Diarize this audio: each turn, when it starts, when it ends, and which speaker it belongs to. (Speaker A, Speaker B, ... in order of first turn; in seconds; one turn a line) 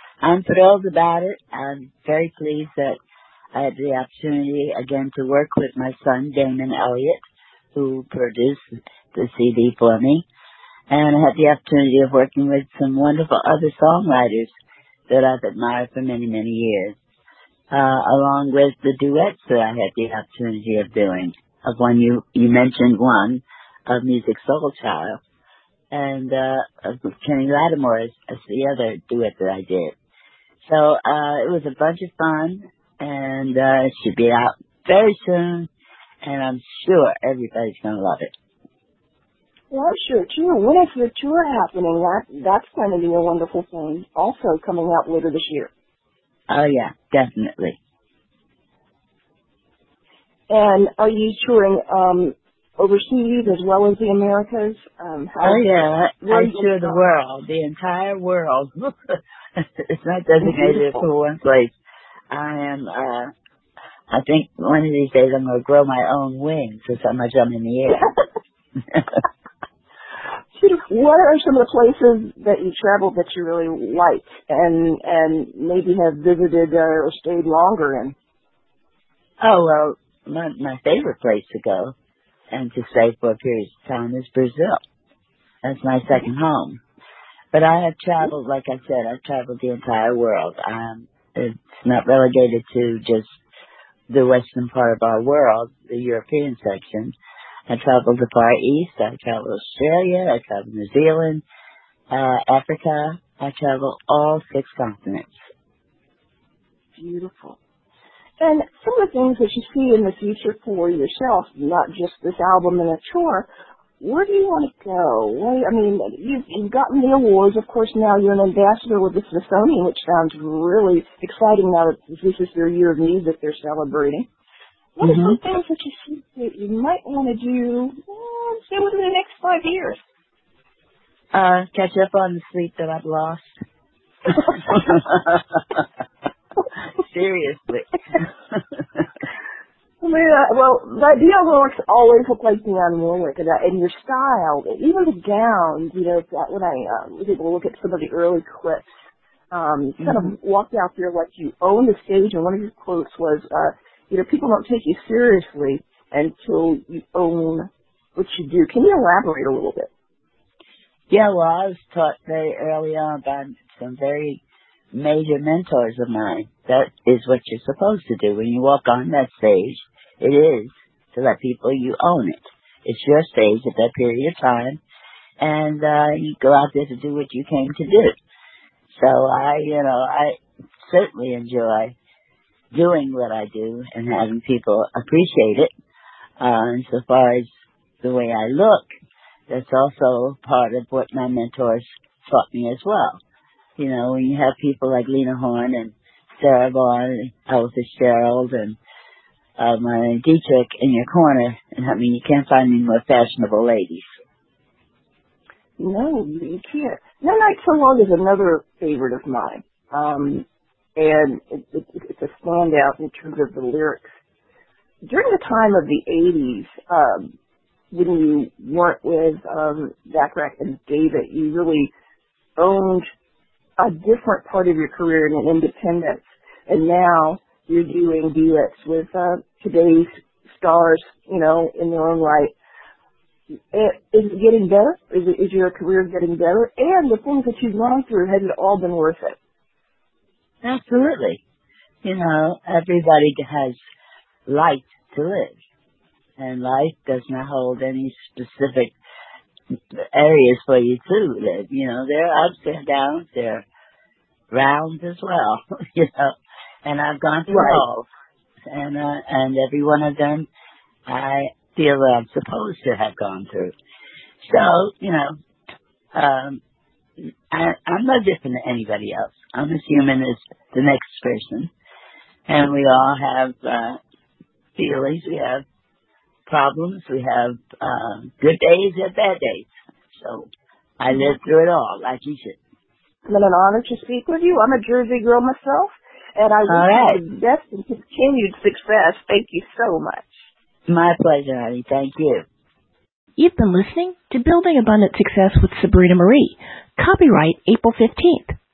Speaker A: 0.2-3.0
Speaker A: 3.5-7.2
Speaker A: 7.7-8.6
Speaker A: 9.1-10.2
Speaker A: 10.9-14.5
Speaker A: 15.1-16.9
Speaker A: 17.7-25.2
Speaker A: 25.9-29.9
Speaker A: 30.6-35.7
Speaker A: 36.2-38.3
Speaker B: 39.7-45.7
Speaker A: 46.5-47.8
Speaker B: 50.5-57.0
Speaker A: 55.4-61.7
Speaker B: 60.4-61.0
Speaker A: 62.3-63.3
Speaker A: 64.1-68.1
Speaker A: 68.9-69.2
Speaker B: 70.5-78.2
Speaker A: 79.4-81.9
Speaker A: 82.5-84.8
Speaker A: 85.6-86.8
Speaker A: 87.5-93.4
Speaker A: 94.1-97.1
Speaker A: 97.7-101.4
Speaker A: 102.1-105.4
Speaker B: 107.0-107.6
Speaker B: 108.4-113.5
Speaker B: 114.0-124.3
Speaker B: 125.0-130.0
Speaker A: 125.0-125.4
Speaker A: 131.3-133.5
Speaker A: 134.5-135.3
Speaker A: 137.0-138.2
Speaker B: 140.0-148.9
Speaker B: 149.5-159.9
Speaker A: 150.0-150.3
Speaker A: 161.1-164.4
Speaker A: 164.9-174.8
Speaker A: 175.4-178.1
Speaker A: 178.9-181.9
Speaker A: 182.7-185.7
Speaker A: 186.4-187.5
Speaker A: 188.0-188.8
Speaker A: 189.5-193.2
Speaker A: 193.8-198.8
Speaker A: 199.6-204.0
Speaker B: 205.8-214.1
Speaker B: 215.1-217.3
Speaker B: 217.9-221.9
Speaker B: 222.6-223.0
Speaker B: 223.8-232.5
Speaker B: 233.7-239.4
Speaker A: 240.6-241.4
Speaker A: 242.0-243.8
Speaker A: 244.5-245.6
Speaker A: 246.4-248.9
Speaker A: 250.1-253.7
Speaker A: 254.5-256.3
Speaker A: 256.9-258.1
Speaker B: 257.5-257.8
Speaker A: 258.7-260.5
Speaker A: 261.1-263.7
Speaker A: 264.4-265.3
Speaker A: 266.1-266.6
Speaker A: 267.5-271.7
Speaker A: 272.5-274.0
Speaker A: 274.8-275.6
Speaker A: 276.5-280.5
Speaker A: 281.0-282.6
Speaker B: 283.3-290.4
Speaker A: 286.7-287.2
Speaker A: 290.9-292.4
Speaker C: 293.4-298.6